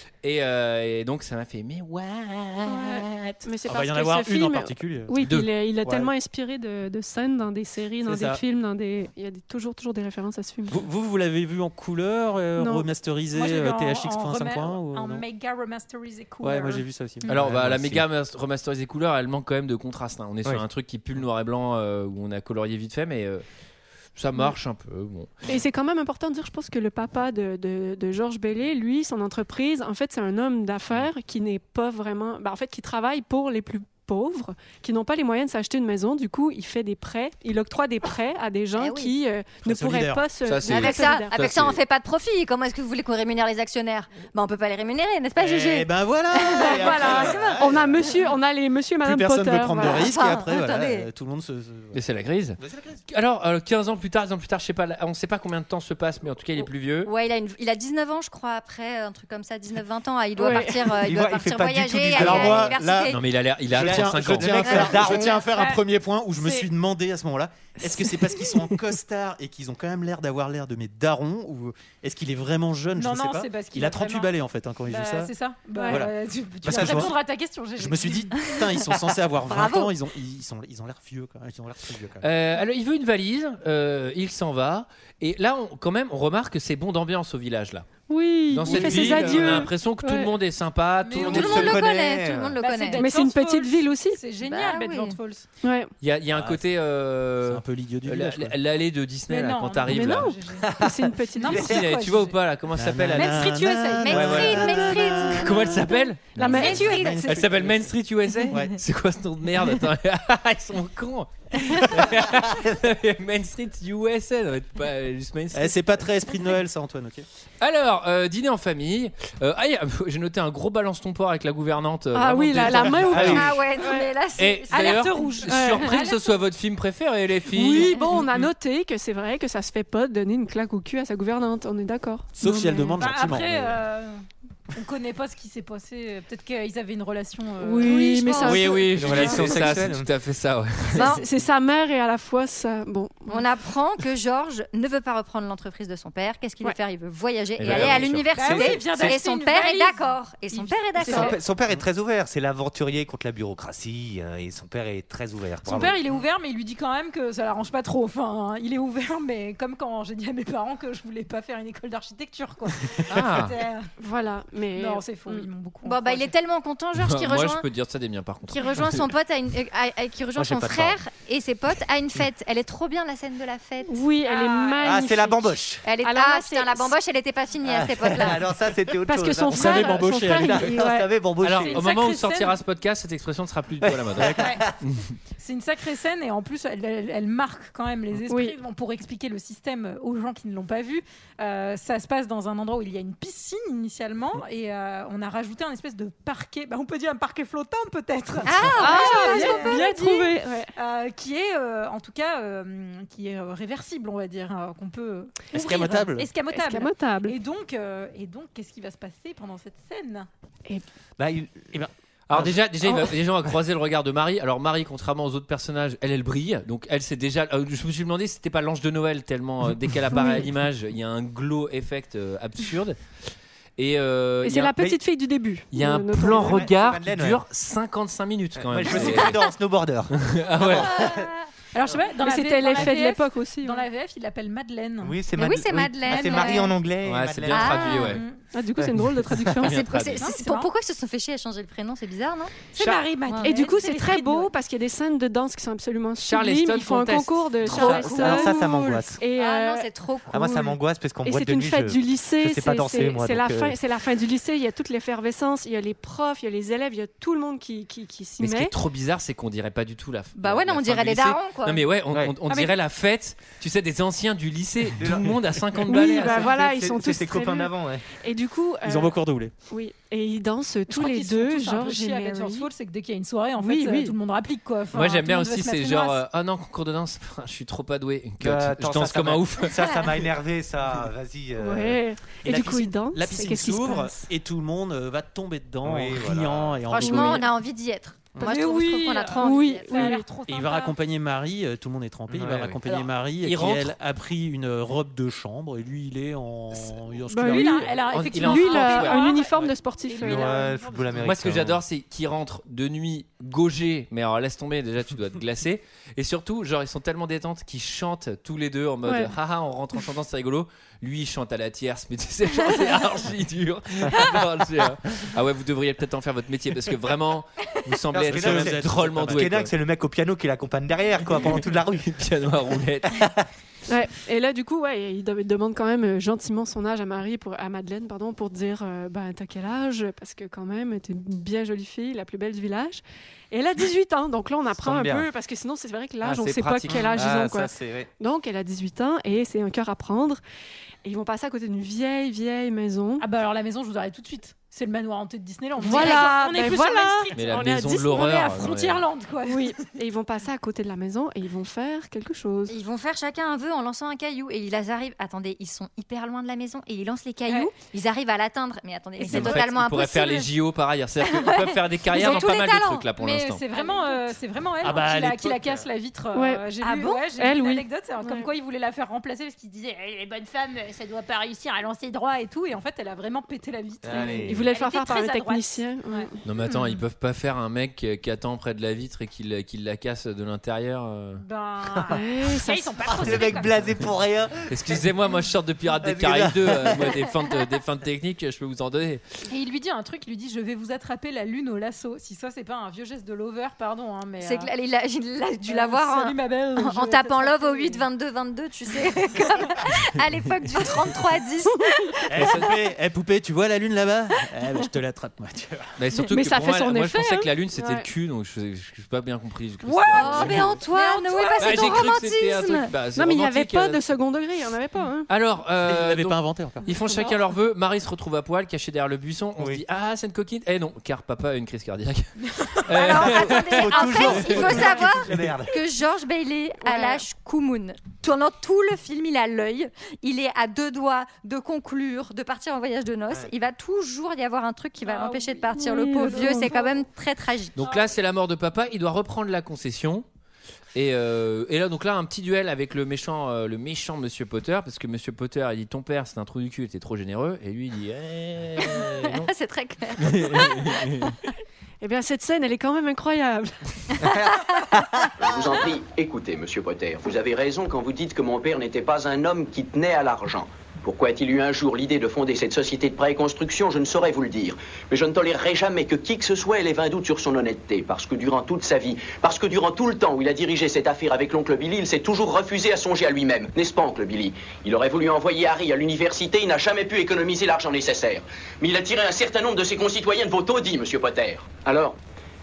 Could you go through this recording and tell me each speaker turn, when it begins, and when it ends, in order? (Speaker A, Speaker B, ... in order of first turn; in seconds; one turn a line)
Speaker A: 0.2-3.4
Speaker B: 2.6-10.8
Speaker C: 3.6-5.3
Speaker A: 5.2-5.5
Speaker C: 5.8-6.1
Speaker C: 8.1-8.4
Speaker C: 10.7-15.2
Speaker B: 12.6-12.9
Speaker D: 13.3-17.3
Speaker C: 16.4-18.0
Speaker A: 17.3-23.4
Speaker E: 17.6-18.0
Speaker A: 24.1-25.4
Speaker B: 25.4-41.3
Speaker F: 38.8-39.1
Speaker C: 39.6-40.2
Speaker A: 40.4-41.8
Speaker F: 40.7-47.5
Speaker C: 45.4-48.0
Speaker B: 46.6-50.1
Speaker E: 46.6-47.6
Speaker C: 49.0-52.0
Speaker F: 49.8-51.1
Speaker A: 51.9-57.1
Speaker F: 57.0-63.2
Speaker B: 60.4-61.0
Speaker E: 61.0-62.9
Speaker C: 62.1-63.1
Speaker A: 63.1-65.0
Speaker C: 63.7-75.3
Speaker E: 63.8-65.4
Speaker F: 64.7-65.4
Speaker D: 65.5-65.8
Speaker D: 66.4-66.7
Speaker D: 73.0-74.3
Speaker D: 74.9-78.5
Speaker B: 75.7-76.1
Speaker C: 75.9-77.2
Speaker E: 76.7-77.1
Speaker C: 77.8-82.2
Speaker F: 79.5-79.9
Speaker A: 82.2-87.9
Speaker B: 88.1-90.3
Speaker A: 88.5-91.8
Speaker C: 88.8-89.5
Speaker D: 91.0-91.6
Speaker E: 91.1-92.5
Speaker F: 91.2-93.1
Speaker D: 92.6-95.4
Speaker B: 93.0-94.2
Speaker F: 94.4-95.2
Speaker B: 95.6-95.9
Speaker A: 96.0-100.3
Speaker C: 96.3-96.6
Speaker C: 97.4-98.5
Speaker D: 99.3-102.3
Speaker B: 99.9-101.8
Speaker A: 101.5-103.5
Speaker C: 102.7-105.8
Speaker D: 103.1-104.8
Speaker F: 104.0-105.7
Speaker A: 104.1-104.8
Speaker A: 105.3-115.8
Speaker B: 106.3-107.4
Speaker C: 106.4-107.9
Speaker F: 106.4-107.3
Speaker C: 108.5-108.8
Speaker C: 115.5-117.2
Speaker A: 117.6-123.5
Speaker B: 122.1-124.1
Speaker C: 123.1-123.5
Speaker E: 123.1-123.5
Speaker F: 123.3-125.2
Speaker A: 124.3-128.1
Speaker D: 124.7-126.3
Speaker B: 125.5-126.1
Speaker B: 127.5-133.0
Speaker C: 132.3-133.8
Speaker D: 133.0-134.2
Speaker D: 134.7-138.4
Speaker B: 137.6-139.4
Speaker F: 137.8-138.7
Speaker A: 138.4-141.2
Speaker E: 138.9-140.1
Speaker F: 140.9-141.2
Speaker B: 141.0-143.4
Speaker F: 143.3-151.4
Speaker A: 147.6-148.3
Speaker E: 147.7-149.2
Speaker D: 148.3-151.4
Speaker E: 151.0-156.0
Speaker D: 155.6-163.9
Speaker A: 163.1-163.6
Speaker B: 164.0-165.5
Speaker D: 164.8-166.3
Speaker F: 165.8-167.6
Speaker A: 167.0-169.0
Speaker F: 168.5-174.0
Speaker E: 170.3-171.0
Speaker B: 173.9-176.9
Speaker D: 174.2-174.9
Speaker E: 174.8-175.8
Speaker F: 175.8-178.4
Speaker E: 177.6-181.8
Speaker B: 179.0-181.1
Speaker C: 179.4-180.8
Speaker A: 181.4-185.1
Speaker D: 181.6-182.6
Speaker E: 183.8-184.6
Speaker D: 185.4-210.3
Speaker B: 188.3-188.6
Speaker F: 198.4-199.8
Speaker B: 198.7-200.7
Speaker C: 205.5-206.3
Speaker B: 206.4-207.3
Speaker E: 211.2-211.8
Speaker C: 211.7-212.6
Speaker A: 212.3-223.0
Speaker B: 212.8-213.1
Speaker B: 220.1-220.5
Speaker A: 223.8-224.8
Speaker B: 224.4-226.7
Speaker A: 225.7-229.4
Speaker E: 226.2-227.4
Speaker E: 228.6-231.3
Speaker A: 230.1-230.9
Speaker F: 230.9-231.3
Speaker D: 231.7-235.2
Speaker B: 232.2-233.8
Speaker E: 235.0-238.1
Speaker F: 235.4-236.7
Speaker A: 237.0-238.2
Speaker F: 237.5-238.2
Speaker D: 238.1-238.4
Speaker B: 238.5-239.8
Speaker A: 239.6-240.3
Speaker F: 239.6-242.7
Speaker D: 240.2-240.7
Speaker D: 242.7-244.5
Speaker B: 243.4-249.9
Speaker A: 246.2-247.4
Speaker E: 247.7-249.2
Speaker F: 247.7-248.4
Speaker F: 249.3-250.7
Speaker E: 250.3-253.8
Speaker B: 251.2-258.7
Speaker A: 258.4-266.5
Speaker F: 260.4-261.9
Speaker D: 262.5-262.7
Speaker E: 265.0-268.0
Speaker B: 265.9-269.2
Speaker C: 268.8-269.5
Speaker B: 269.7-272.7
Speaker D: 270.9-276.2
Speaker B: 273.6-274.1
Speaker A: 274.9-279.8
Speaker E: 278.4-282.0
Speaker F: 279.8-280.0
Speaker B: 281.6-284.3
Speaker C: 282.4-287.5
Speaker E: 285.8-286.8
Speaker F: 286.9-290.1
Speaker B: 287.0-287.4
Speaker D: 288.4-290.9
Speaker B: 289.4-290.3
Speaker C: 290.4-298.0
Speaker E: 292.3-292.8
Speaker A: 292.9-293.9
Speaker B: 297.3-300.6
Speaker D: 297.4-301.1
Speaker A: 298.1-299.2
Speaker E: 300.2-301.8
Speaker A: 301.2-319.7
Speaker B: 309.1-309.3
Speaker E: 318.1-322.2
Speaker C: 318.3-319.2
Speaker A: 321.9-323.3
Speaker E: 323.1-323.4
Speaker B: 323.9-340.4
Speaker E: 334.8-335.3
Speaker A: 336.2-337.3
Speaker E: 337.1-338.1
Speaker B: 341.0-343.2
Speaker D: 343.2-347.4
Speaker B: 345.8-348.4
Speaker A: 347.3-349.0
Speaker D: 348.1-349.8
Speaker B: 349.4-352.7
Speaker F: 352.7-360.5
Speaker A: 359.2-363.6
Speaker D: 359.2-359.6
Speaker F: 361.2-363.1
Speaker D: 363.2-376.3
Speaker F: 363.7-364.0
Speaker C: 364.8-365.8
Speaker B: 366.3-368.5
Speaker E: 374.0-374.6
Speaker B: 374.2-376.9
Speaker A: 376.4-381.4
Speaker D: 381.4-383.8
Speaker B: 382.1-383.0
Speaker E: 383.1-385.0
Speaker A: 384.7-389.2
Speaker E: 386.0-387.3
Speaker D: 389.5-394.7
Speaker F: 394.4-402.6
Speaker D: 395.6-398.0
Speaker C: 402.3-405.9
Speaker A: 402.4-402.7
Speaker A: 406.0-410.8
Speaker B: 406.2-408.1
Speaker D: 409.8-412.0
Speaker F: 410.1-412.9
Speaker A: 411.6-414.0
Speaker B: 413.1-415.3
Speaker A: 415.3-424.9
Speaker C: 415.8-416.8
Speaker E: 419.6-419.8
Speaker F: 422.9-437.8
Speaker E: 422.9-425.8
Speaker D: 424.7-425.0
Speaker D: 426.8-427.2
Speaker D: 435.0-436.9
Speaker B: 435.7-436.8
Speaker A: 437.8-440.2
Speaker A: 440.9-449.5
Speaker F: 448.9-451.0
Speaker A: 450.2-451.4
Speaker B: 452.0-453.8
Speaker F: 454.3-454.8
Speaker G: 455.4-482.2